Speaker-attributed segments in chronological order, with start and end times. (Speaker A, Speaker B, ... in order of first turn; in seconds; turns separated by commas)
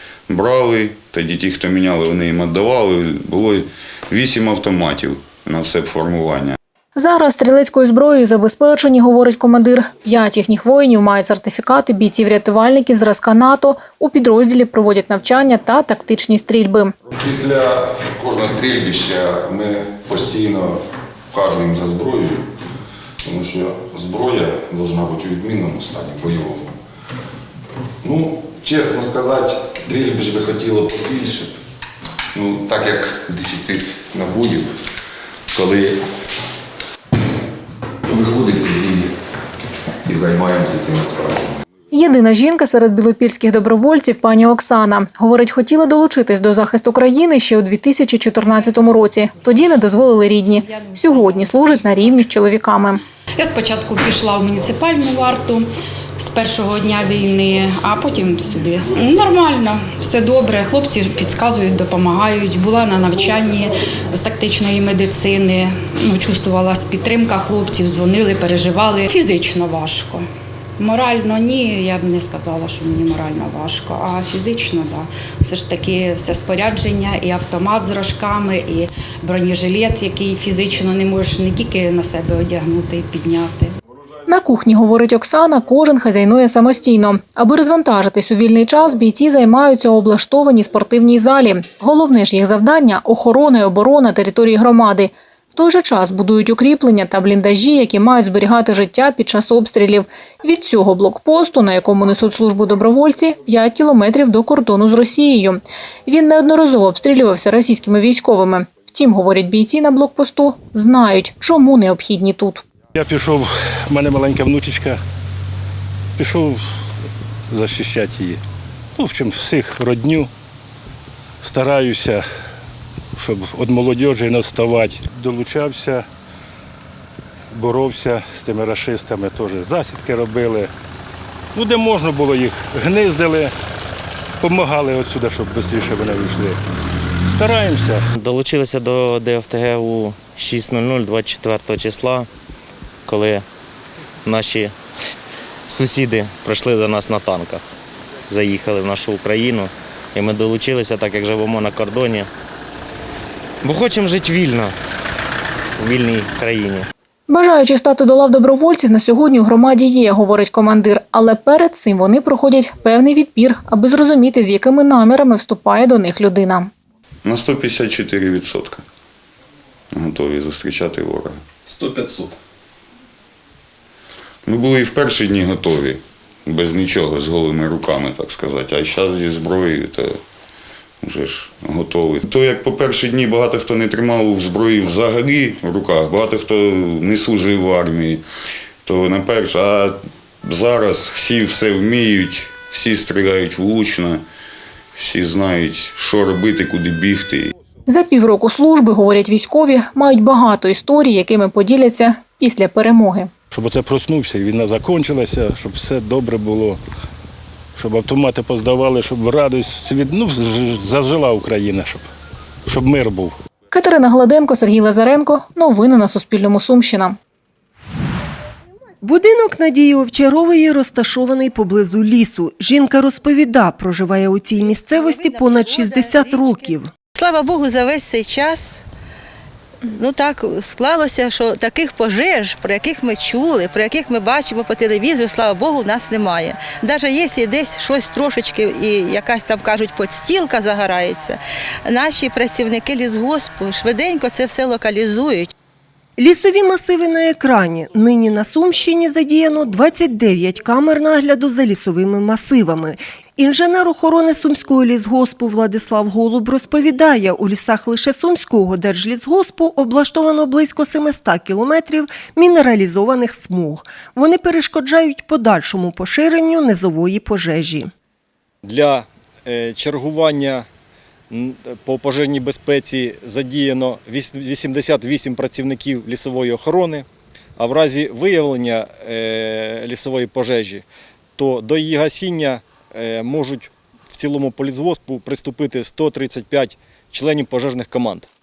Speaker A: 0.3-6.6, Speaker B: 6.9-16.9, Speaker C: 17.2-17.6, Speaker C: 18.2-20.6, Speaker D: 21.3-21.6, Speaker C: 21.6-22.3, Speaker C: 23.3-26.6, Speaker C: 28.0-31.5, Speaker C: 32.4-34.6, Speaker C: 35.5-35.9, Speaker C: 38.1-39.0, Speaker C: 40.1-41.4, Speaker B: 41.9-53.0, Speaker E: 53.4-55.7, Speaker E: 56.2-70.2, Speaker E: 70.8-83.7, Speaker B: 84.3-112.6, Speaker F: 113.0-115.0, Speaker F: 116.2-116.6, Speaker F: 117.5-118.4, Speaker F: 119.0-120.3, Speaker F: 121.4-122.2, Speaker F: 123.2-126.0, Speaker F: 127.5-130.7, Speaker F: 131.5-133.5, Speaker F: 134.4-136.6, Speaker F: 137.2-138.0, Speaker G: 138.2-142.3, Speaker G: 143.1-143.4, Speaker G: 144.2-144.7, Speaker G: 145.7-147.6, Speaker G: 148.3-152.3, Speaker G: 153.6-154.7, Speaker G: 155.8-156.8, Speaker B: 157.3-166.7, Speaker A: 167.2-168.8, Speaker A: 169.9-171.4, Speaker A: 174.4-180.2, Speaker A: 181.0-188.2, Speaker A: 188.8-194.2, Speaker A: 194.9-197.5, Speaker B: 197.9-203.3, Speaker F: 203.5-206.8, Speaker F: 207.8-212.0, Speaker F: 212.7-213.3, Speaker B: 213.7-217.2, Speaker H: 219.0-226.9, Speaker I: 227.1-228.8, Speaker I: 229.9-245.5, Speaker H: 246.2-267.9, Speaker D: 268.7-270.6, Speaker D: 271.3-277.0, Speaker D: 277.6-280.8, Speaker D: 281.4-288.3